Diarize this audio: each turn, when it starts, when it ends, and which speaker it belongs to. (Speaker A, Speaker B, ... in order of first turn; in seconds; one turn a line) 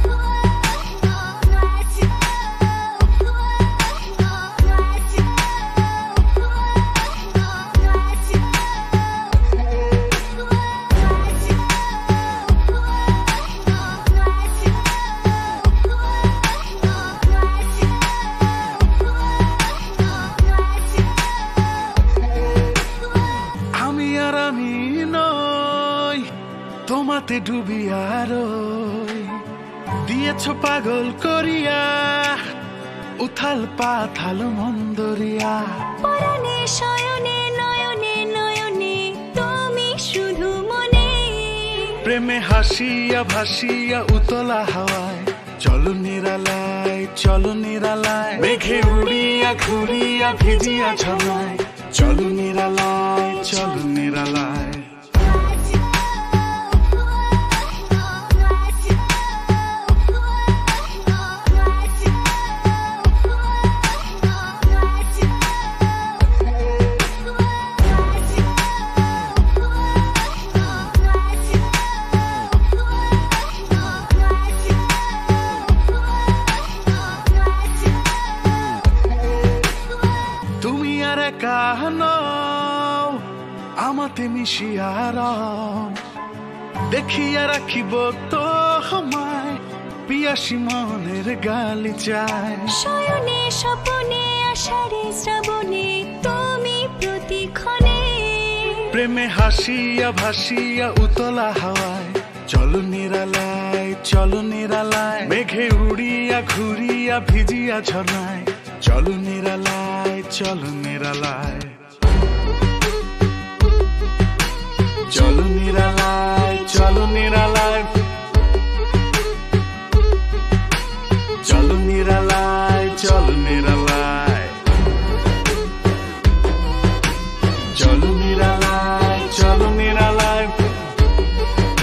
Speaker A: 23.7-26.3
Speaker A: 26.9-32.5
Speaker A: 33.2-35.8
Speaker B: 36.0-42.0
Speaker A: 42.0-55.0
Speaker B: 49.7-51.6
Speaker A: 80.6-86.0
Speaker A: 86.9-92.8
Speaker B: 92.7-99.0
Speaker A: 98.9-111.8
Speaker A: 115.0-118.1
Speaker A: 121.3-124.6
Speaker A: 127.7-130.8